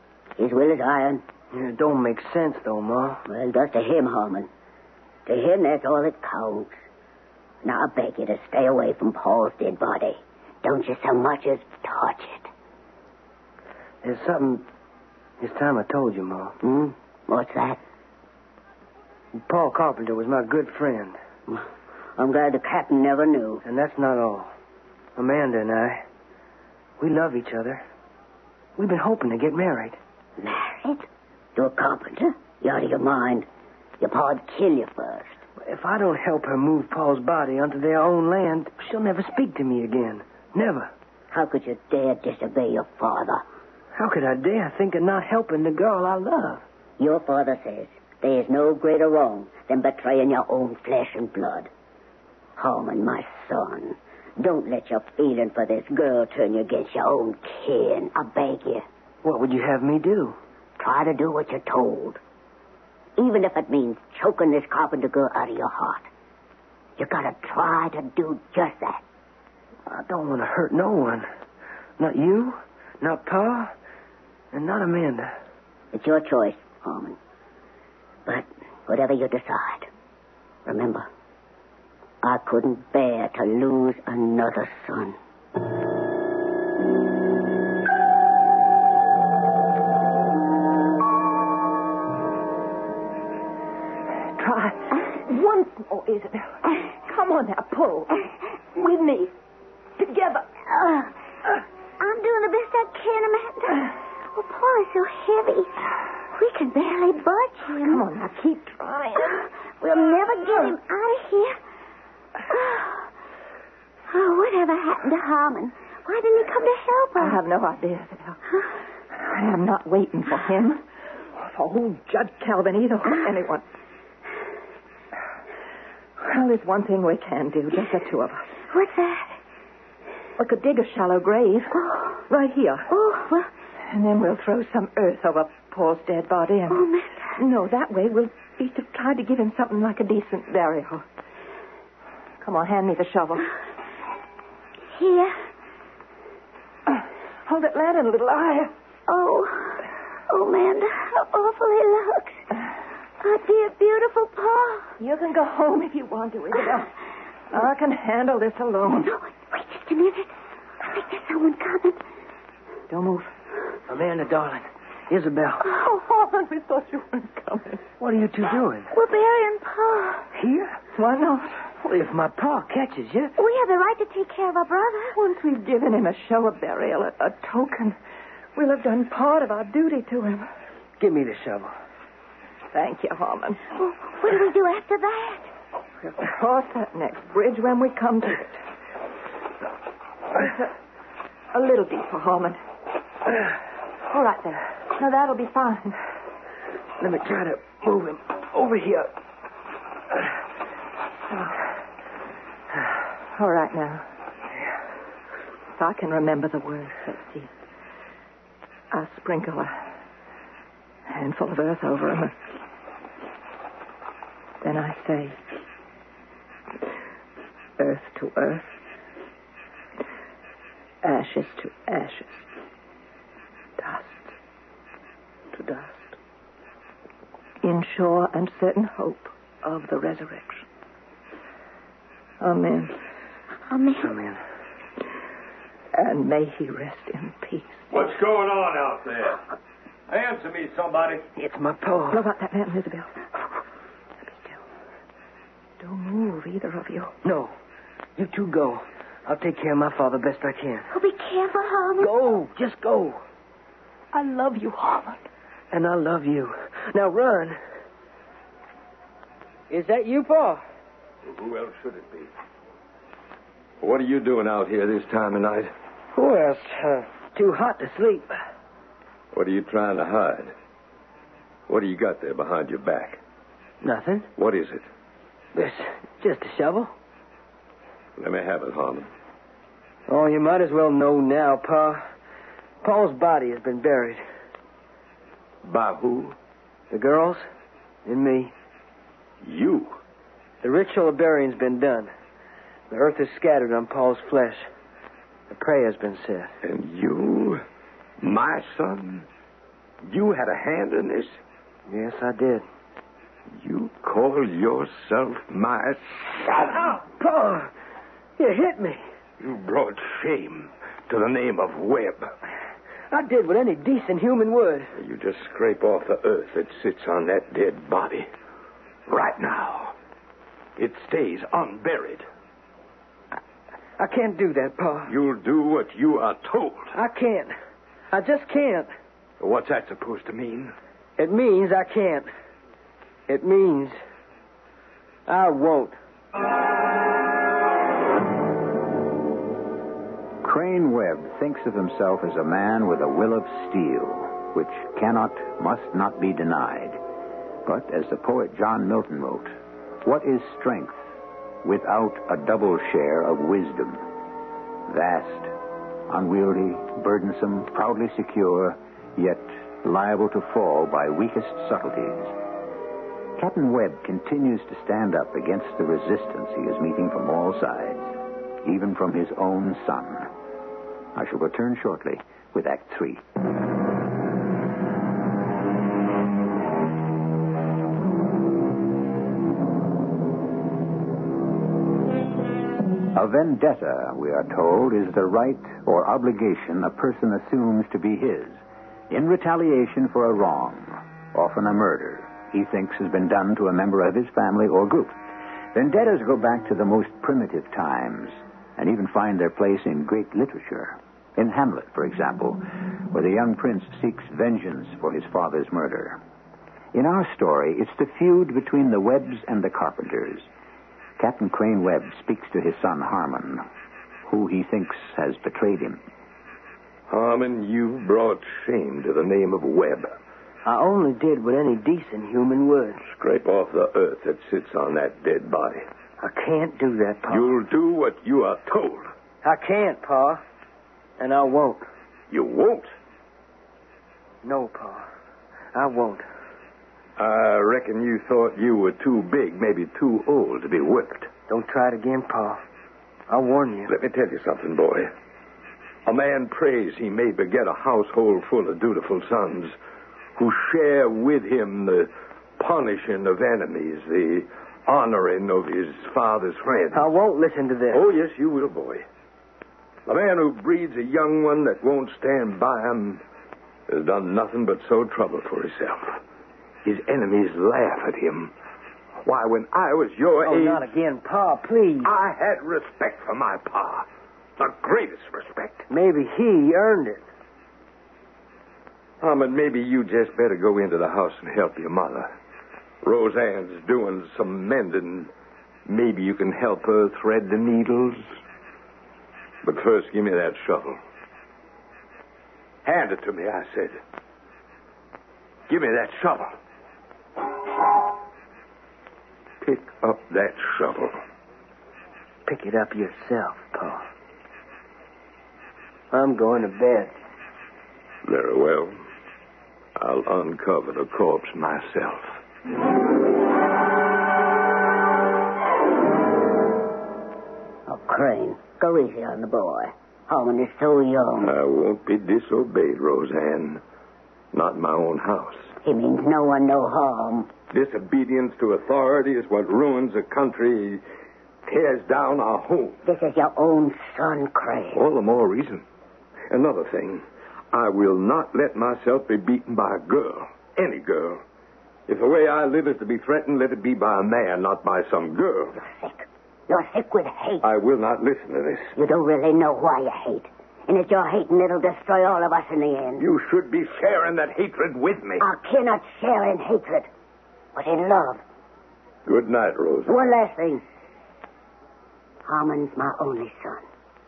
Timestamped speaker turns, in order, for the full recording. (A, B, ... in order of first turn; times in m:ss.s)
0:00.4-0:01.2 A
0:01.5-0:03.2 B
0:03.3-0:04.5 A
0:05.3-0:06.8 A
0:07.6-0:12.5 A
0:14.0-0:14.6 B
0:15.4-0:16.6 B
0:16.6-0:17.8 A
0:19.4-0:21.2 B
0:22.2-0:23.6 A
0:23.6-0:24.5 B
0:25.2-0:26.0 B
0:27.0-0:27.8 B
0:28.8-0:30.0 B
0:30.4-0:30.8 A
0:30.8-0:31.0 C
0:31.6-0:33.5 A
0:34.0-0:35.4 A
0:35.6-0:40.9 B
0:41.3-0:43.4 A
0:44.0-0:46.6 B
0:47.0-0:51.7 A
0:52.6-0:58.8 A
0:59.2-1:00.4 B
1:00.8-1:02.2 A
1:03.2-1:06.1 A
1:07.0-1:09.0 A
1:09.9-1:11.3 B
1:12.0-1:13.7 B
1:14.5-1:15.3 B
1:15.9-1:17.2 A
1:18.3-1:19.9 A
1:20.7-1:21.1 A
1:22.2-1:25.2 A
1:34.4-1:39.3 D
1:40.0-1:40.5 D
1:40.8-1:41.1 C
1:42.0-1:48.0 C
1:47.6-1:49.4 D
1:49.8-1:51.6 C
1:52.5-1:53.1 C
1:54.1-1:57.4 C
1:57.2-1:58.4 D
1:59.1-2:00.8 D
2:01.4-2:03.6 D
2:06.2-2:08.5 D
2:08.7-2:09.3 C
2:10.4-2:12.9 D
2:12.9-2:13.5 C
2:13.8-2:21.0 D
2:16.7-2:17.3 C
2:22.4-2:23.5 D
2:24.9-2:25.4 C
2:26.9-2:28.7 D
2:29.1-2:32.4 C
2:33.2-2:34.9 C
2:35.0-2:36.9 D
2:37.5-2:39.1 D
2:39.0-2:42.0 C
2:42.9-2:43.3 D
2:43.9-2:45.6 B
2:45.6-2:47.8 D
2:48.0-2:48.9 B
2:48.9-2:50.3 C
2:50.3-2:50.8 B
2:51.0-2:51.6 D
2:51.8-2:53.3 B
2:53.4-2:55.2 C
2:55.1-2:58.0 D
2:58.6-3:00.5 D
3:01.0-3:01.7 B
3:02.7-3:03.6 D
3:03.8-3:05.5 C
3:06.0-3:08.6 D
3:10.4-3:10.7 D
3:11.5-3:12.6 D
3:14.1-3:16.0 D
3:17.0-3:19.1 B
3:23.3-3:24.1 D
3:25.8-3:27.5 D
3:28.9-3:29.9 D
3:31.1-3:32.3 D
3:34.6-3:35.4 D
3:37.8-3:38.8 D
3:41.0-3:42.5 D
3:43.8-3:44.4 D
3:45.5-3:46.2 D
3:47.6-3:50.7 D
3:52.4-3:53.0 D
3:53.7-3:54.1 C
3:54.0-3:54.4 B
3:55.9-3:57.9 D
3:57.9-3:59.4 E
4:00.1-4:01.3 E
4:01.4-4:02.2 B
4:02.1-4:03.2 D
4:04.2-4:04.6 D
4:05.8-4:07.1 D
4:07.2-4:07.5 B
4:08.2-4:10.9 B
4:10.9-4:12.2 C
4:12.0-4:13.2 B
4:14.1-4:15.2 D
4:15.7-4:17.6 B
4:19.7-4:20.6 B
4:21.2-4:22.3 E
4:23.8-4:25.7 E
4:26.1-4:28.3 B
4:29.3-4:30.5 E
4:31.7-4:33.2 E
4:33.8-4:34.3 B
4:34.4-4:34.9 E
4:35.5-4:36.9 B
4:38.2-4:39.1 E
4:40.1-4:42.0 B
4:42.8-4:44.2 B
4:45.6-4:46.4 E
4:46.9-4:47.4 B
4:48.0-4:48.5 B
4:49.4-4:50.0 E
4:50.6-4:52.1 B
4:52.9-4:54.7 B
4:55.5-4:56.5 B
4:56.6-4:57.6 E
4:58.2-4:59.3 E
5:00.1-5:01.4 E
5:01.9-5:02.6 B
5:03.6-5:06.6 E
5:06.7-5:07.7 B
5:08.4-5:09.0 B
5:09.4-5:12.3 E
5:13.1-5:14.9 B
5:15.0-5:18.3 E
5:19.1-5:20.0 E
5:20.8-5:22.3 E
5:24.0-5:25.1 B
5:25.1-5:26.9 E
5:26.9-5:27.5 B
5:28.1-5:28.9 B
5:29.4-5:30.7 E
5:31.2-5:32.3 B
5:33.3-5:34.0 B
5:35.3-5:36.0 B
5:40.4-5:47.0 F
5:47.6-5:51.0 F
5:51.6-5:54.0 F
5:54.9-5:55.5 F
5:56.1-6:02.3 F
6:03.4-6:10.3 F
6:11.2-6:13.2 F
6:23.1-6:35.2 F
6:35.7-6:46.2 F
6:46.9-6:50.5 F
6:51.2-6:53.6 F
6:54.3-6:56.0 F
6:57.1-7:00.1 E
7:00.6-7:03.0 B
7:03.0-7:05.9 E
7:06.2-7:07.6 B
7:07.3-7:09.1 E
7:09.4-7:10.4 B
7:11.2-7:11.9 B
7:12.3-7:12.9 E
7:14.4-7:15.1 B
7:15.7-7:16.3 B
7:17.2-7:21.3 E
7:21.5-7:22.6 B
7:23.3-7:23.9 B
7:23.9-7:25.1 E
7:26.1-7:29.7 E
7:30.4-7:37.1 E
7:36.9-7:38.0 B
7:37.9-7:39.1 E
7:40.1-7:43.2 E
7:43.9-7:46.2 E
7:46.8-7:48.5 E
7:49.2-7:50.9 E
7:50.4-7:52.1 B
7:52.0-7:54.1 E
7:54.6-7:55.9 E
7:55.9-7:57.2 B
7:59.2-8:02.3 E
8:03.0-8:05.3 E
8:05.9-8:08.2 E
8:09.6-8:11.0 E
8:12.8-8:14.0 E
8:15.7-8:16.6 E
8:19.6-8:21.2 E
8:22.5-8:24.0 B
8:26.1-8:27.1 B
8:28.2-8:29.0 E
8:30.0-8:32.4 E
8:37.9-8:41.5 A
8:41.4-8:43.8 E
8:44.5-8:45.7 E
8:45.8-8:47.5 A
8:47.7-8:51.0 E
8:51.7-8:53.0 E
8:53.0-8:55.0 A
8:54.9-8:55.8 E
8:56.5-9:01.4 E
9:02.1-9:05.8 E
9:05.8-9:07.6 A
9:07.6-9:08.9 E
9:09.0-9:13.2 A
9:13.2-9:15.4 E
9:15.4-9:17.1 A
9:17.8-9:18.4 A
9:19.3-9:20.1 E
9:20.1-9:20.8 A
9:22.4-9:23.9 A